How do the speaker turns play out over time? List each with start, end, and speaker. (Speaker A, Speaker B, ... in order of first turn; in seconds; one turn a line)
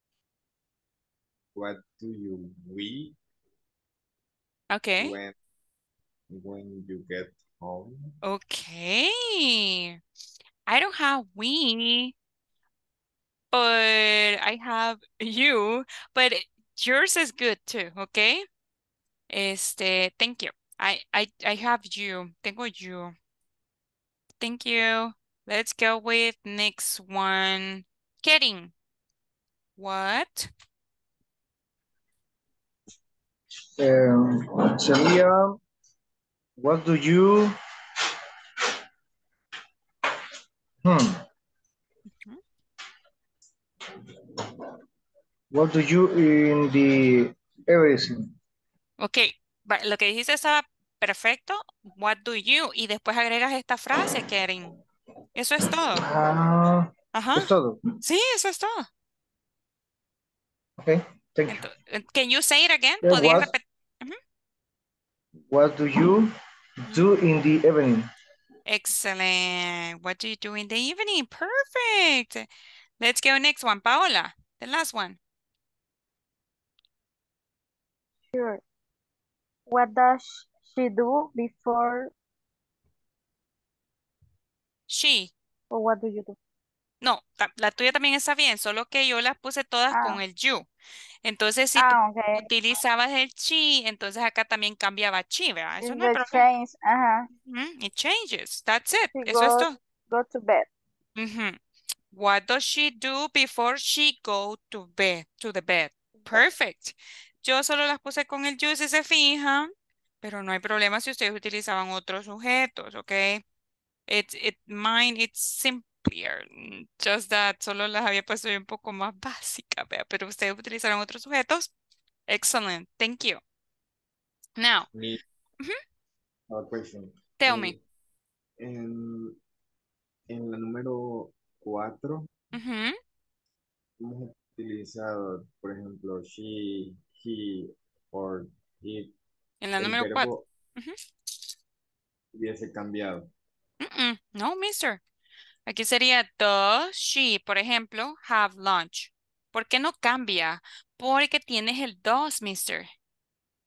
Speaker A: 1.5-3.2
Speaker B: 4.7-5.2
Speaker A: 5.0-5.4
Speaker A: 6.3-8.1
Speaker B: 8.2-10.0
Speaker B: 10.7-12.2
Speaker B: 13.5-18.4
Speaker B: 19.3-23.1
Speaker B: 24.4-28.7
Speaker B: 29.8-30.5
Speaker C: 33.8-35.6
Speaker C: 36.6-37.6
Speaker C: 40.8-41.2
Speaker C: 45.5-48.3
Speaker B: 49.0-54.7
Speaker B: 55.4-56.0
Speaker C: 56.0-57.8
Speaker B: 57.1-57.5
Speaker B: 58.0-58.9
Speaker C: 60.8-61.7
Speaker B: 61.5-64.2
Speaker C: 63.0-63.5
Speaker C: 65.5-66.3
Speaker C: 66.9-68.1
Speaker B: 68.7-72.5
Speaker B: 73.0-75.2
Speaker D: 78.3-78.6
Speaker D: 79.7-82.1
Speaker B: 84.9-85.3
Speaker D: 85.7-86.4
Speaker B: 87.0-90.7
Speaker D: 89.9-90.2
Speaker B: 91.2-96.5
Speaker D: 91.8-92.5
Speaker D: 95.8-97.3
Speaker B: 97.5-99.8
Speaker D: 99.1-100.7
Speaker B: 101.2-101.6
Speaker B: 102.1-109.7
Speaker B: 110.2-113.4
Speaker B: 114.1-121.7
Speaker B: 122.3-123.4
Speaker B: 124.6-124.9
Speaker A: 124.9-125.2
Speaker A: 126.5-127.8
Speaker B: 127.4-127.8
Speaker A: 128.6-129.4
Speaker A: 130.3-132.3
Speaker B: 132.5-133.0
Speaker A: 134.0-139.2
Speaker B: 139.6-141.0
Speaker A: 139.8-140.5
Speaker A: 142.3-143.3
Speaker B: 143.8-145.0
Speaker B: 145.7-152.9